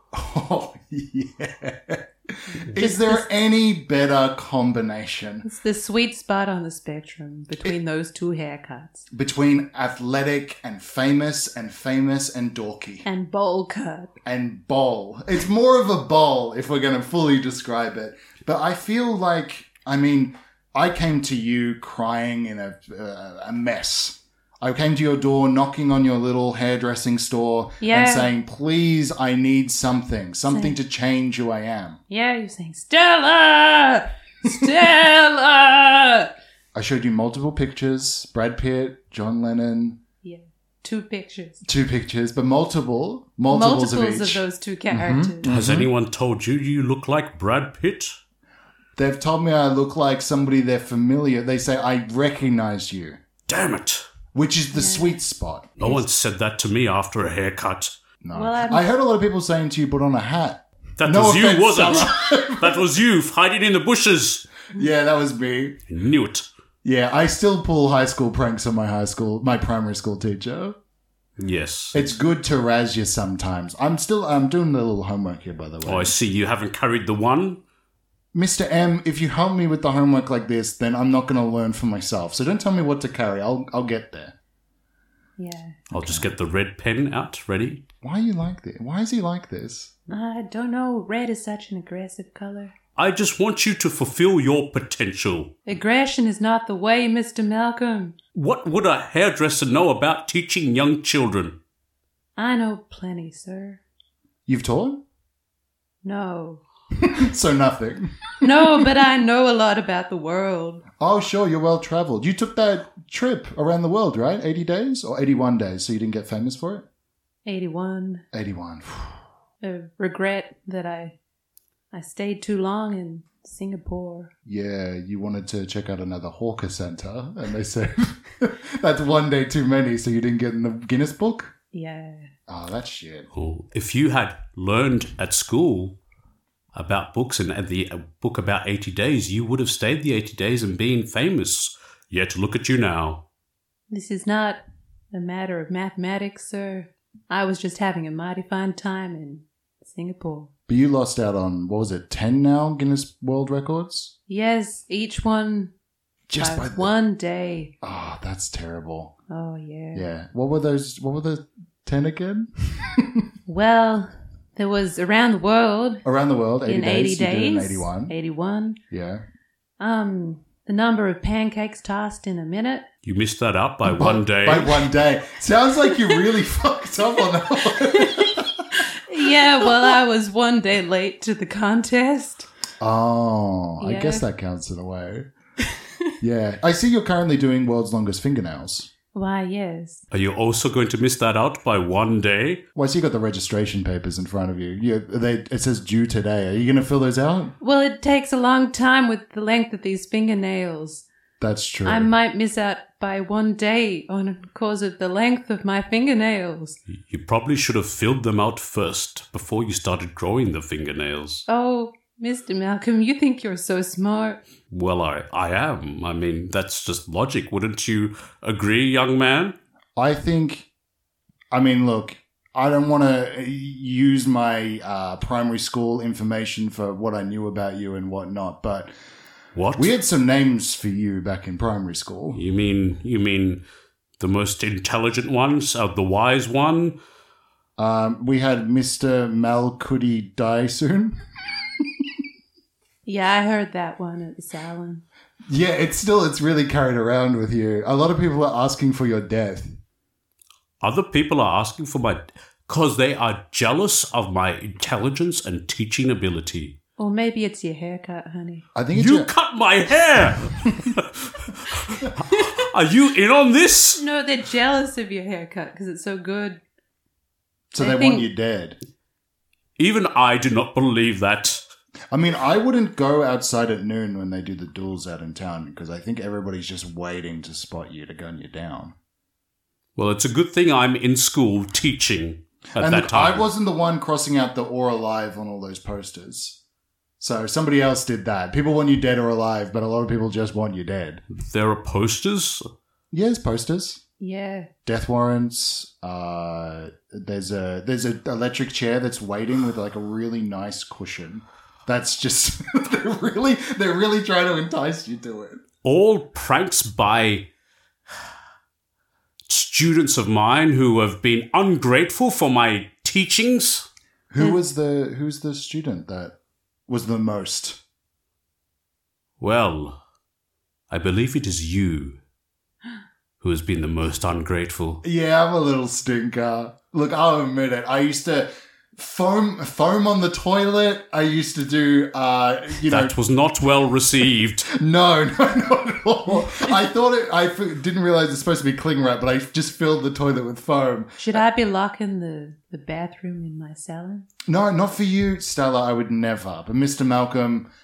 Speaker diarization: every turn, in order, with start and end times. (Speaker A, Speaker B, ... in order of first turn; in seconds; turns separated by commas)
Speaker A: 0.1-5.5, Speaker B: 2.5-3.3, Speaker B: 5.5-9.1, Speaker A: 9.1-13.1, Speaker B: 13.1-14.1, Speaker A: 14.2-32.0, Speaker B: 27.8-28.3, Speaker B: 30.5-30.8, Speaker B: 32.1-36.3, Speaker A: 36.8-40.0, Speaker B: 40.2-41.6, Speaker A: 41.6-45.9, Speaker B: 43.5-45.5, Speaker C: 45.5-48.1, Speaker A: 49.0-53.2, Speaker C: 53.5-54.1, Speaker A: 54.3-55.8, Speaker B: 54.7-55.2, Speaker C: 55.8-57.9, Speaker A: 58.2-62.8, Speaker B: 58.3-58.9, Speaker C: 61.0-64.5, Speaker A: 64.7-65.8, Speaker C: 65.9-66.5, Speaker A: 66.8-70.8, Speaker C: 71.4-72.0, Speaker A: 71.9-76.1, Speaker C: 75.8-77.6, Speaker A: 78.3-84.3, Speaker B: 85.4-85.8, Speaker A: 85.9-86.3, Speaker C: 85.9-87.8, Speaker A: 88.0-89.9, Speaker B: 90.1-92.7, Speaker C: 93.0-95.5, Speaker B: 95.7-98.2, Speaker C: 98.3-101.5, Speaker B: 102.4-103.8, Speaker A: 104.5-105.0, Speaker B: 106.0-106.6, Speaker A: 107.0-108.9, Speaker B: 108.4-110.8, Speaker A: 111.0-116.8, Speaker B: 117.5-118.2, Speaker A: 118.3-119.2, Speaker B: 119.6-121.2, Speaker B: 121.9-124.3, Speaker A: 124.5-131.5, Speaker B: 131.7-132.3, Speaker A: 132.5-133.3, Speaker C: 133.3-135.9, Speaker C: 136.7-143.2, Speaker B: 143.9-144.6, Speaker B: 145.1-150.5, Speaker A: 150.7-154.1, Speaker B: 154.3-155.7, Speaker A: 156.3-156.9, Speaker B: 156.4-157.7, Speaker A: 157.8-159.1, Speaker B: 159.3-160.1, Speaker A: 159.9-163.2, Speaker B: 163.5-166.0, Speaker A: 166.0-168.1, Speaker B: 166.7-168.8, Speaker A: 168.9-169.2, Speaker B: 169.8-172.8, Speaker C: 173.0-174.9, Speaker A: 173.8-178.8, Speaker B: 177.7-182.5, Speaker A: 182.8-185.3, Speaker B: 183.8-184.2, Speaker A: 186.2-188.9, Speaker B: 189.1-190.0, Speaker C: 190.1-192.6, Speaker A: 192.8-197.5, Speaker B: 197.6-201.1, Speaker A: 201.4-202.1, Speaker B: 201.8-206.8, Speaker C: 206.9-211.5, Speaker B: 211.5-214.4, Speaker C: 214.7-219.6, Speaker A: 220.0-220.7, Speaker A: 221.5-228.9, Speaker C: 229.6-229.9, Speaker A: 229.8-232.4, Speaker C: 232.3-233.6, Speaker C: 234.2-236.9, Speaker A: 237.8-241.2, Speaker B: 243.1-245.0, Speaker A: 245.5-249.8, Speaker C: 250.8-256.8, Speaker B: 257.0-258.7, Speaker A: 258.8-259.3, Speaker C: 258.9-264.0, Speaker A: 260.7-260.9, Speaker B: 264.0-266.6, Speaker A: 267.7-268.8, Speaker B: 267.8-268.3, Speaker C: 269.8-271.6, Speaker A: 272.1-278.9, Speaker C: 280.0-283.5, Speaker A: 282.8-286.6, Speaker A: 287.2-291.2, Speaker C: 291.3-292.6, Speaker A: 293.1-294.0, Speaker B: 294.2-294.7, Speaker A: 294.9-305.6, Speaker C: 305.8-307.4, Speaker C: 309.5-313.9, Speaker A: 314.3-316.3, Speaker A: 316.9-317.8, Speaker C: 319.4-320.0, Speaker C: 320.9-322.2, Speaker C: 323.4-325.0, Speaker A: 325.0-333.1, Speaker C: 332.9-334.6, Speaker A: 334.7-341.4, Speaker B: 341.2-344.3, Speaker A: 344.5-347.7